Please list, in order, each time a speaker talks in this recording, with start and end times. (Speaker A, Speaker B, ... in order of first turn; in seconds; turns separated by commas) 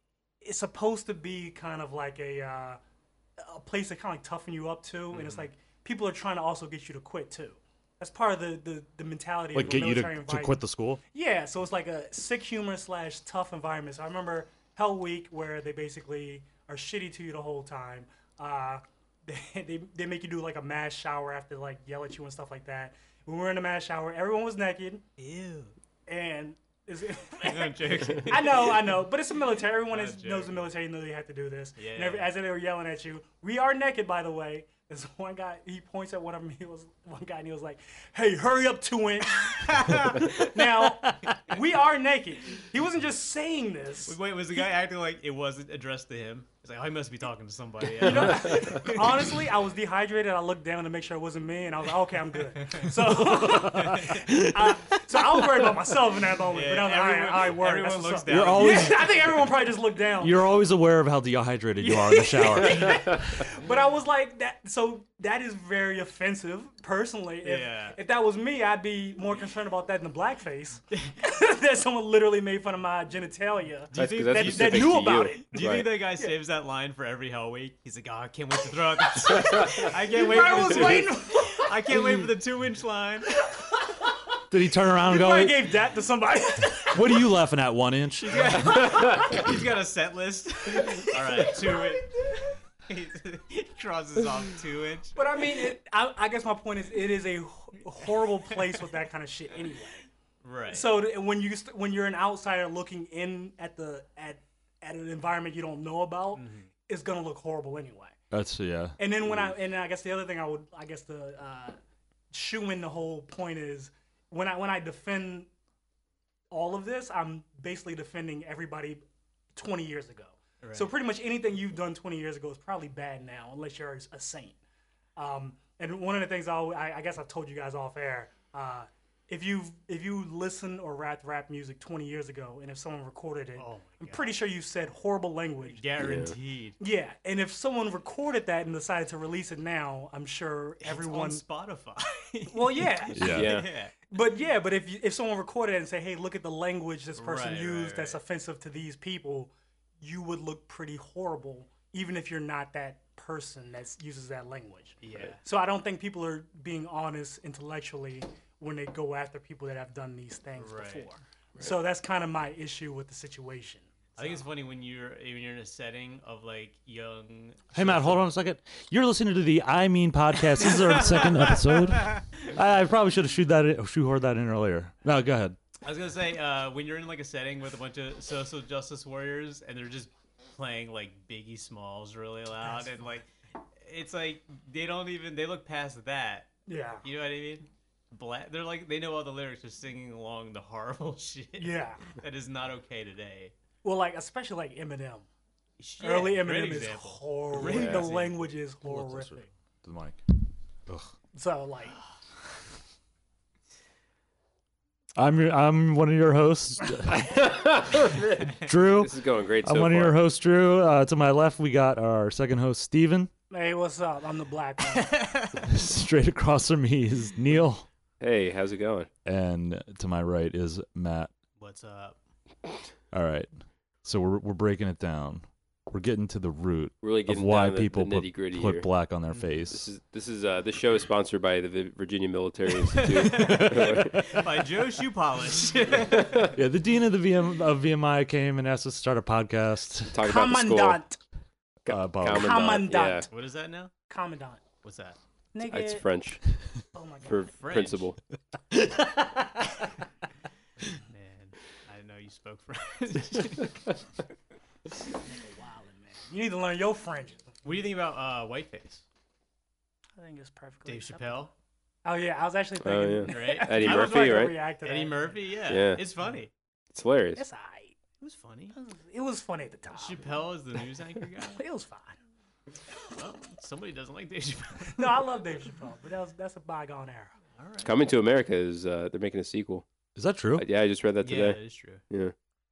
Speaker A: 0.4-2.8, Speaker A: 3.4-10.6, Speaker B: 5.1-5.5, Speaker C: 9.5-11.0, Speaker A: 11.1-25.0, Speaker B: 25.2-25.7, Speaker A: 26.1-44.2, Speaker B: 27.4-29.0, Speaker B: 29.8-30.7, Speaker B: 31.8-32.3, Speaker B: 39.4-40.5, Speaker C: 40.9-41.3, Speaker B: 44.1-49.5, Speaker A: 48.0-60.4, Speaker C: 53.0-54.7, Speaker B: 53.9-54.2, Speaker B: 56.5-59.2, Speaker C: 58.3-59.1, Speaker C: 60.2-63.4, Speaker A: 61.8-75.7, Speaker B: 67.4-68.0, Speaker B: 73.9-83.4, Speaker D: 74.0-75.9, Speaker A: 79.2-81.7, Speaker D: 79.2-80.0, Speaker A: 83.3-84.2, Speaker C: 84.5-85.7, Speaker A: 85.0-87.3, Speaker C: 86.8-89.1, Speaker B: 88.2-95.6, Speaker D: 88.6-89.5, Speaker A: 90.8-92.5, Speaker A: 95.1-100.0, Speaker B: 98.1-98.8, Speaker B: 100.4-100.9, Speaker A: 100.7-108.2, Speaker B: 106.3-106.7, Speaker C: 108.3-109.0, Speaker A: 109.0-111.8, Speaker D: 109.2-109.5, Speaker A: 112.3-115.5, Speaker A: 116.5-119.0, Speaker A: 119.5-124.6, Speaker B: 120.6-120.9, Speaker A: 125.2-135.8, Speaker B: 133.6-134.3, Speaker B: 135.7-136.8, Speaker D: 136.0-136.3, Speaker A: 136.8-141.4, Speaker B: 140.8-143.9, Speaker A: 142.5-164.4, Speaker C: 143.1-143.5, Speaker D: 143.3-143.7, Speaker B: 147.2-148.2, Speaker B: 155.0-155.4, Speaker B: 160.6-161.1, Speaker B: 164.2-168.3, Speaker C: 167.7-175.6, Speaker B: 170.6-172.5, Speaker B: 175.8-186.5, Speaker A: 182.6-182.9, Speaker A: 186.7-187.0, Speaker B: 187.0-193.5, Speaker A: 191.6-192.0, Speaker A: 193.8-195.2, Speaker B: 195.8-198.5, Speaker A: 196.0-199.5, Speaker D: 197.6-198.0, Speaker C: 198.8-200.2, Speaker C: 200.9-201.1, Speaker A: 201.3-202.0, Speaker C: 205.2-207.3, Speaker D: 207.1-210.2, Speaker C: 208.6-213.3, Speaker A: 213.5-215.2, Speaker B: 214.9-215.6, Speaker C: 215.6-217.9, Speaker D: 218.2-219.1, Speaker C: 219.2-221.3, Speaker B: 221.6-222.2, Speaker C: 223.1-223.5, Speaker C: 224.0-229.9, Speaker D: 227.0-228.9, Speaker B: 229.3-229.6, Speaker D: 229.7-234.3, Speaker B: 233.0-236.5, Speaker C: 233.2-234.5, Speaker D: 236.1-236.6, Speaker C: 236.5-240.2, Speaker D: 240.1-241.0, Speaker A: 240.2-241.2, Speaker D: 241.8-243.3, Speaker C: 241.9-242.7, Speaker A: 242.4-243.3, Speaker B: 243.3-243.9, Speaker A: 244.1-244.6, Speaker B: 244.8-245.2, Speaker A: 245.5-246.0, Speaker D: 245.7-246.5, Speaker A: 246.9-247.5, Speaker D: 247.2-248.2, Speaker B: 247.5-248.1, Speaker C: 248.8-249.6, Speaker B: 250.8-253.7, Speaker A: 255.2-257.5, Speaker B: 257.6-259.0, Speaker A: 260.2-261.4, Speaker B: 260.9-261.5, Speaker A: 262.1-265.3, Speaker D: 262.8-264.6, Speaker B: 263.3-266.5, Speaker D: 265.7-266.0, Speaker D: 266.9-267.4, Speaker A: 267.4-268.0, Speaker B: 268.2-268.8, Speaker A: 268.7-270.2, Speaker B: 269.9-271.6, Speaker A: 271.6-272.2, Speaker B: 273.2-275.2, Speaker A: 275.0-277.4, Speaker B: 277.6-277.9, Speaker D: 277.8-279.9, Speaker C: 280.2-280.7, Speaker D: 280.6-281.6, Speaker B: 281.2-282.0